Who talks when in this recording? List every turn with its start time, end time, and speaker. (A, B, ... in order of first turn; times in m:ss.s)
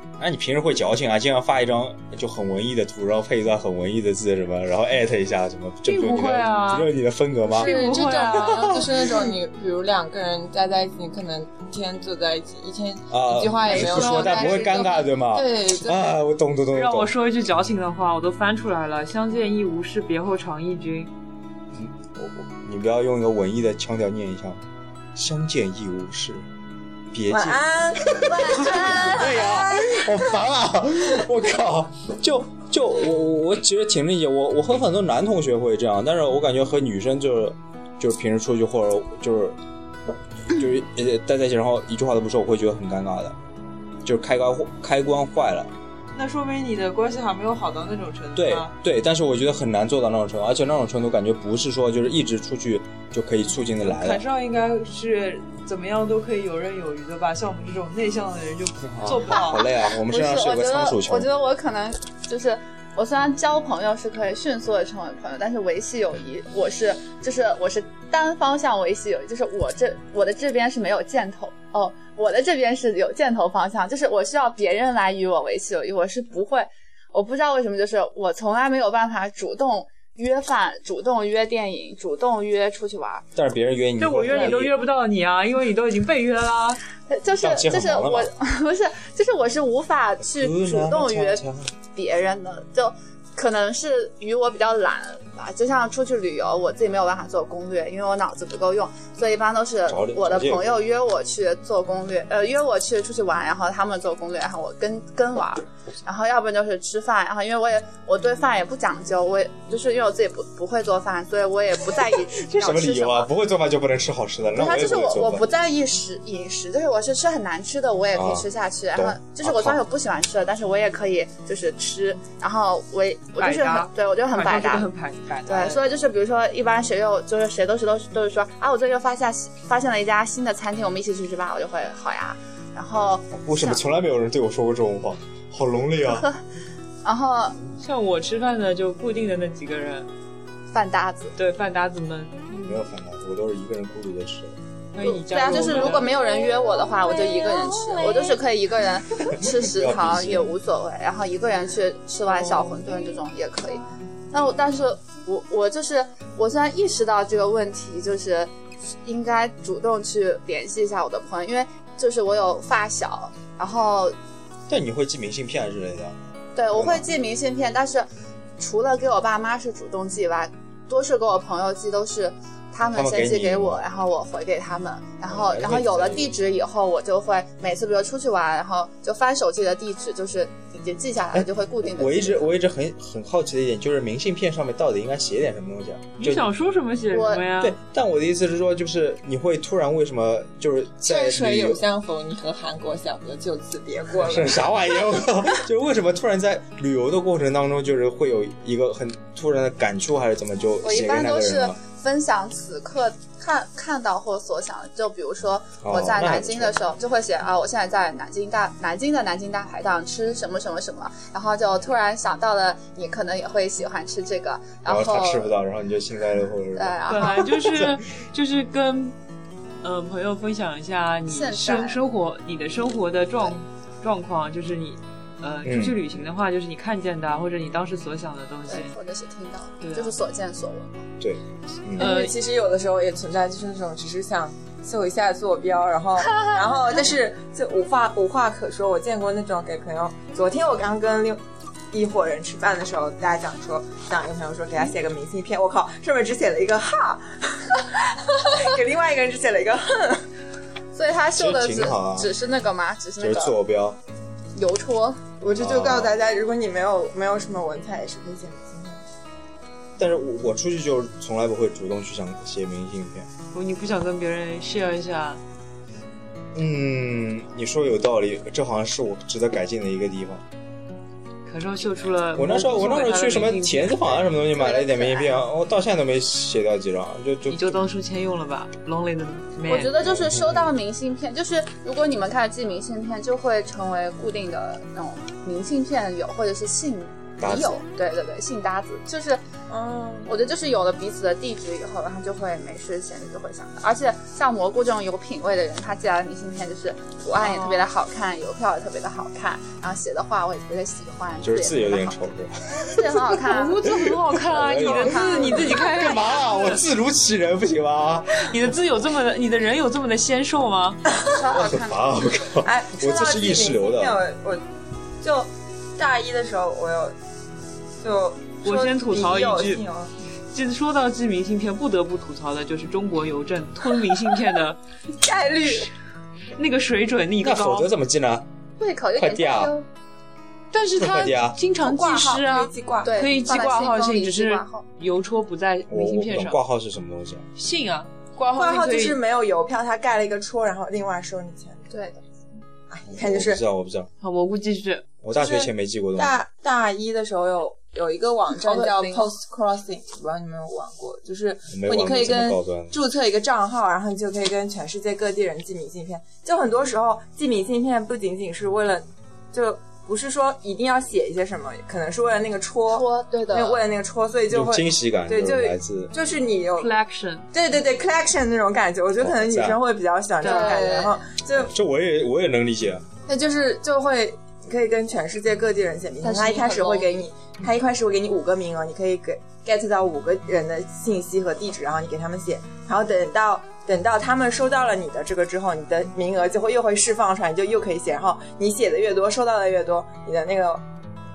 0:00.2-0:07.7 A
0:05.8-0:06.9 B
0:07.5-0:16.2 C
0:07.5-0:08.9 B
0:13.1-0:17.1 A
0:13.6-0:14.7 B
0:16.7-0:21.1 B
0:21.7-0:24.6 A
0:25.1-0:26.5 A
0:27.1-0:27.6 A
0:27.3-0:29.0 C
0:28.2-0:39.6 A
0:28.5-0:29.1 D
0:40.5-0:43.4 A
0:44.0-0:45.7 A
0:46.1-0:48.7 B
0:48.3-0:54.2 A
0:53.8-0:59.7 B
0:58.9-1:01.3 A
0:59.9-1:23.2 D
1:23.4-1:24.7 A
1:24.0-1:26.8 B
1:27.0-1:53.3 D
1:27.4-1:28.3 A
1:30.2-1:31.7 A
1:39.9-1:40.8 A
1:52.3-1:55.4 A
1:54.5-2:04.9 D
1:58.1-1:59.8 A
2:03.4-2:05.8 B
2:05.4-2:13.9 D
2:13.4-2:16.3 A
2:16.1-2:16.4 D
2:17.0-2:17.6 D
2:17.8-2:20.1 B
2:20.7-2:21.3 D
2:21.4-2:22.6 B
2:22.6-2:24.6 A
2:24.9-2:26.2 B
2:25.0-2:38.5 D
2:25.6-2:28.0 C
2:29.4-2:30.5 A
2:32.3-2:33.1 B
2:39.0-2:44.1 D
2:44.7-2:46.2 A
2:46.5-2:48.1 D
2:46.7-2:47.1 A
2:48.6-3:02.5 D
2:52.9-2:53.8 A
2:55.3-2:56.3 A
3:01.3-3:06.5 A
3:06.2-3:07.8 B
3:07.1-3:07.4 D
3:07.6-3:11.8 A
3:11.0-3:14.8 C
3:14.2-3:21.8 A
3:20.8-3:35.6 D
3:25.8-3:26.8 A
3:34.8-3:37.9 A
3:36.7-3:37.5 D
3:37.1-3:39.2 B
3:39.8-3:48.9 B
3:41.3-3:42.0 D
3:45.6-3:46.0 A
3:48.7-3:51.0 D
3:49.8-3:50.2 B
3:51.2-3:52.1 A
3:52.0-4:01.4 C
3:52.0-3:52.4 B
4:01.9-4:10.2 C
4:10.9-4:13.6 D
4:11.4-4:12.3 A
4:13.2-4:14.0 A
4:14.5-4:15.2 D
4:15.4-4:19.0 C
4:15.5-4:16.1 A
4:20.0-4:23.3 A
4:23.5-4:25.4 B
4:26.5-4:30.4 A
4:31.4-4:34.2 B
4:32.4-4:37.8 A
4:34.4-4:35.4 D
4:37.5-4:39.9 B
4:39.7-4:49.4 D
4:40.0-4:40.8 A
4:47.4-4:47.8 A
4:49.7-4:50.3 C
4:50.2-5:02.2 D
4:57.4-4:57.9 B
5:01.4-5:02.5 A
5:02.8-5:03.8 D
5:03.0-5:06.8 B
5:04.3-5:08.6 A
5:04.5-5:05.8 D
5:08.3-5:11.0 B
5:11.2-5:12.2 D
5:11.6-5:14.2 A
5:12.6-5:14.6 C
5:15.2-5:17.1 C
5:18.0-5:20.1 C
5:18.6-5:19.8 B
5:20.5-5:24.8 B
5:25.2-5:25.9 C
5:26.6-5:27.9 B
5:27.4-5:28.4 A
5:28.8-5:29.9 D
5:29.2-5:29.7 A
5:30.7-5:36.6 B
5:31.0-5:31.6 A
5:31.8-5:33.3 C
5:33.0-5:34.8 D
5:35.9-5:37.4 A
5:37.6-5:39.2 B
5:38.5-5:41.9 C
5:41.9-5:42.2 D
5:42.9-5:43.6 C
5:43.1-5:44.1 A
5:44.2-5:45.0 B
5:45.2-5:46.4 A
5:45.3-6:06.9 C
5:48.6-5:49.2 B
5:51.7-5:53.0 A
6:02.9-6:03.8 D
6:04.5-6:06.1 A
6:06.8-6:07.5 B
6:07.5-6:11.7 C
6:09.2-6:09.8 A
6:10.4-6:11.2 D
6:10.4-6:10.9 B
6:11.7-6:13.0 A
6:13.3-6:30.8 C
6:16.2-6:17.2 B